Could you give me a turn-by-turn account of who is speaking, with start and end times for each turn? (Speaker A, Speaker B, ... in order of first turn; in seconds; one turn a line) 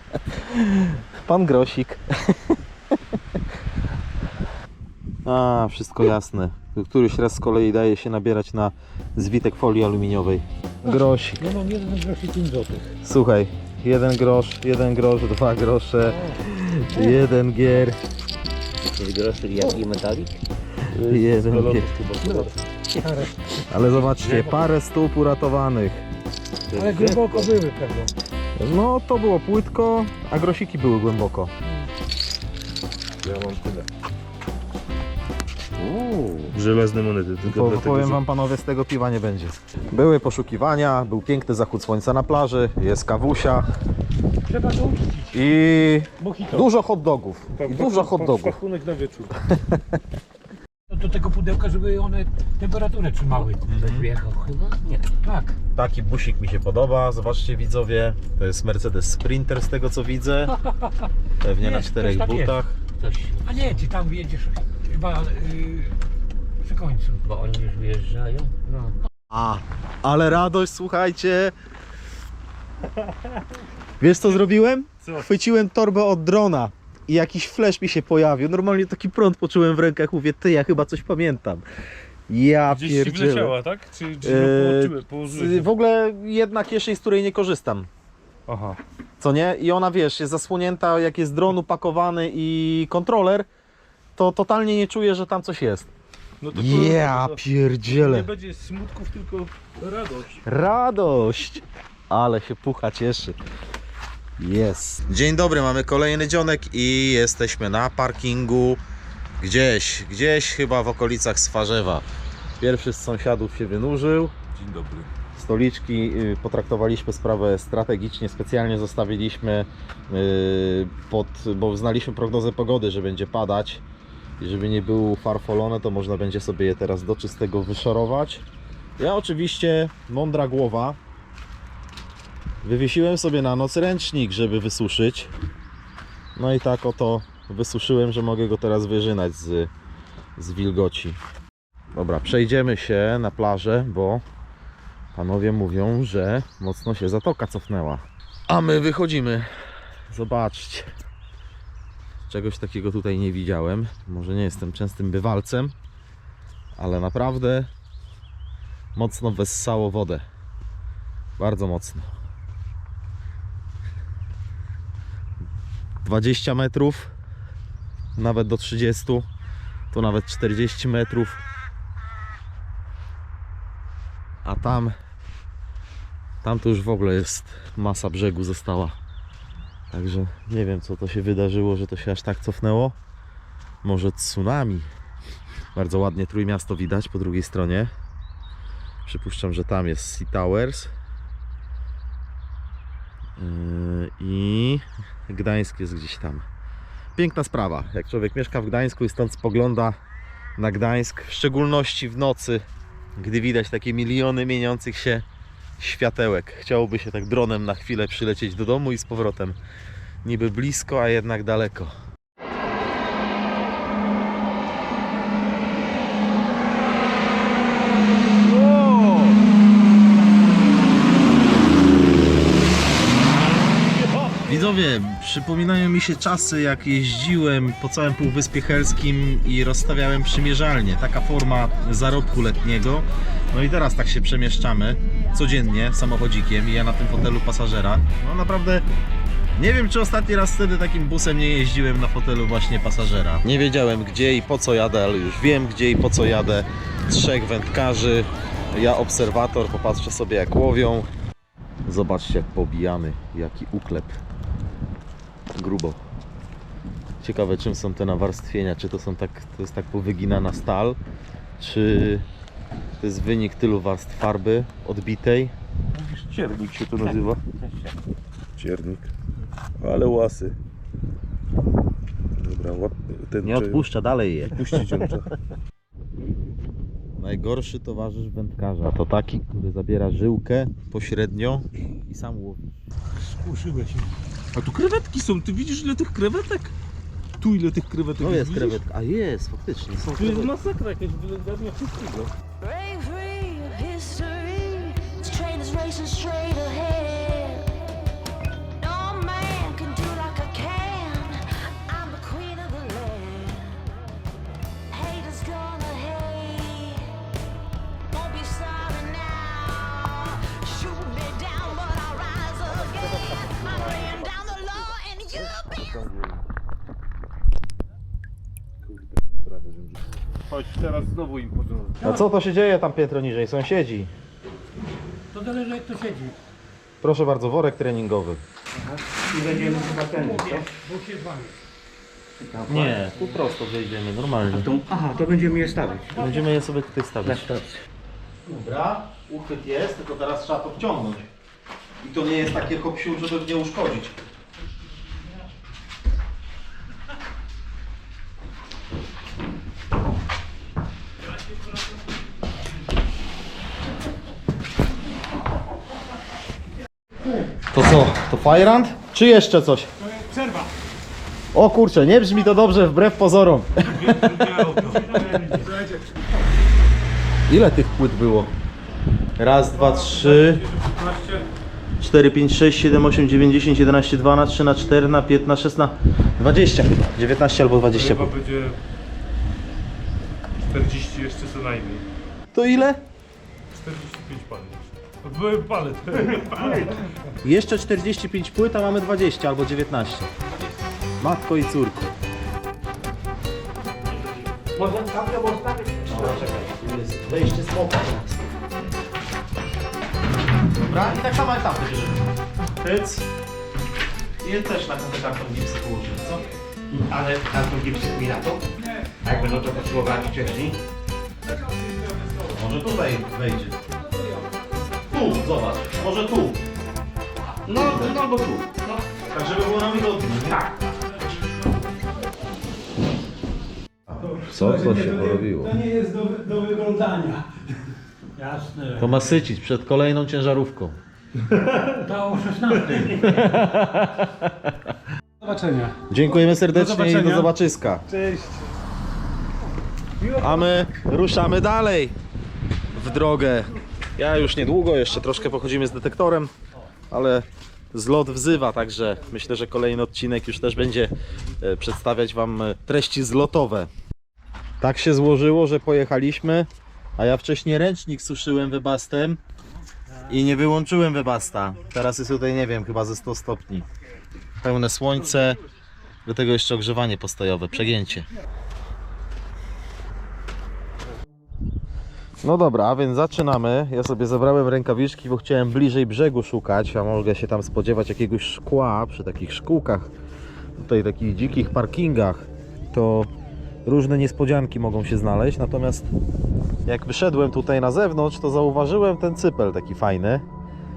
Speaker A: 0.3-2.6
Speaker A: 5.2-11.4
Speaker B: 11.4-12.9
Speaker A: 13.0-18.0
Speaker C: 19.0-20.4
Speaker D: 20.9-22.6
Speaker A: 21.1-21.9
Speaker B: 23.0-23.4
Speaker A: 23.7-26.0
Speaker C: 26.7-27.6
Speaker B: 26.8-28.1
Speaker A: 28.6-31.5
Speaker D: 33.2-33.9
Speaker A: 35.9-36.3
Speaker D: 36.5-38.2
Speaker A: 37.4-43.7
Speaker B: 44.5-45.4
Speaker A: 45.3-48.6
Speaker D: 46.2-46.6
Speaker D: 47.6-49.4
Speaker A: 49.5-49.8
Speaker B: 50.9-55.6
Speaker A: 53.7-54.1
Speaker C: 54.8-55.2
Speaker A: 55.8-60.5
Speaker A: 61.4-62.8
Speaker B: 61.6-66.0
Speaker C: 63.0-63.6
Speaker B: 66.6-69.0
Speaker C: 67.3-68.6
Speaker A: 69.3-71.5
Speaker A: 74.0-81.6
Speaker A: 82.3-83.5
Speaker D: 82.7-85.7
Speaker A: 84.2-87.9
Speaker D: 88.5-88.8
Speaker A: 89.2-93.5
Speaker A: 94.2-95.9
Speaker D: 96.4-100.4
Speaker A: 96.5-98.3
Speaker A: 100.5-103.4
Speaker A: 104.4-108.8
Speaker A: 109.4-112.1
Speaker A: 112.6-114.3
Speaker D: 114.5-115.1
Speaker A: 115.3-123.8
Speaker A: 124.4-128.4
Speaker A: 129.0-131.0
Speaker A: 132.6-135.3
Speaker A: 136.4-139.7
Speaker A: 140.4-141.2
Speaker A: 141.9-144.2
Speaker A: 145.2-149.5
Speaker A: 150.1-150.9
Speaker A: 152.3-155.7
Speaker A: 156.8-157.7
Speaker A: 158.9-160.2
Speaker A: 161.4-162.1
Speaker A: 166.1-167.1
Speaker A: 168.2-169.3
Speaker A: 169.9-171.4
Speaker A: 174.4-174.9
Speaker A: 176.4-179.0
Speaker A: 179.9-183.0
Speaker A: 183.8-184.9
Speaker A: 185.8-187.9
Speaker A: 189.1-190.9
Speaker A: 193.4-196.5
Speaker A: 197.2-200.0
Speaker A: 200.6-202.7
Speaker A: 203.2-205.2
Speaker A: 205.8-209.6
Speaker A: 210.2-211.9
Speaker D: 218.6-219.3
Speaker A: 224.4-238.8
Speaker A: 239.6-251.1
Speaker A: 251.9-254.2
Speaker A: 255.6-256.0
Speaker A: 257.2-261.0
Speaker A: 261.6-262.3
Speaker A: 263.0-265.5
Speaker D: 265.9-267.5
Speaker D: 268.6-269.1
Speaker D: 269.8-270.6
Speaker D: 272.4-273.9
Speaker A: 273.4-274.9
Speaker D: 274.4-275.3
Speaker A: 277.2-282.7
Speaker B: 283.2-284.1
Speaker D: 284.6-286.7
Speaker D: 287.4-288.8
Speaker A: 288.2-290.5
Speaker D: 290.1-292.3
Speaker E: 292.6-297.7
Speaker E: 298.8-303.7
Speaker E: 304.9-307.1
Speaker E: 308.1-316.1
Speaker D: 315.7-316.4
Speaker D: 318.9-322.0
Speaker A: 322.0-324.1
Speaker B: 325.3-326.4
Speaker A: 327.0-328.4
Speaker C: 328.8-330.7
Speaker B: 329.6-331.6
Speaker C: 332.4-333.1
Speaker A: 332.7-334.8
Speaker C: 334.6-336.2
Speaker A: 336.1-337.6
Speaker B: 336.2-336.4
Speaker C: 337.2-337.8
Speaker A: 338.5-341.3
Speaker A: 342.0-344.2
Speaker A: 357.7-359.9
Speaker A: 361.5-364.1
Speaker D: 363.8-365.9
Speaker B: 365.2-365.6
Speaker A: 367.5-368.6
Speaker A: 369.4-370.6
Speaker D: 369.7-371.5
Speaker A: 372.0-378.3
Speaker D: 377.9-378.8
Speaker D: 380.7-382.1
Speaker A: 382.5-383.0
Speaker D: 383.7-387.1
Speaker A: 387.4-390.3
Speaker A: 391.2-392.1
Speaker D: 394.8-395.3
Speaker B: 395.1-395.9
Speaker A: 396.1-398.5
Speaker A: 400.8-402.3
Speaker A: 402.8-403.3
Speaker A: 404.4-406.4
Speaker C: 406.9-408.6
Speaker C: 409.2-410.8
Speaker A: 412.4-413.8
Speaker A: 415.1-416.6
Speaker C: 417.7-419.0
Speaker A: 417.8-418.2
Speaker A: 419.3-420.7
Speaker A: 424.1-425.8
Speaker B: 425.8-427.4
Speaker B: 428.4-429.1
Speaker A: 429.0-431.0
Speaker B: 432.0-433.4
Speaker A: 433.0-434.8
Speaker B: 435.4-436.0
Speaker A: 436.1-438.0
Speaker D: 436.8-437.2
Speaker D: 438.1-438.5
Speaker A: 440.3-442.2
Speaker A: 442.9-446.5
Speaker A: 447.1-453.9
Speaker A: 454.8-459.4
Speaker A: 460.3-463.9
Speaker A: 464.6-465.6
Speaker A: 466.2-468.3
Speaker A: 472.4-480.1
Speaker A: 480.8-483.3
Speaker A: 483.9-486.1
Speaker A: 486.9-490.4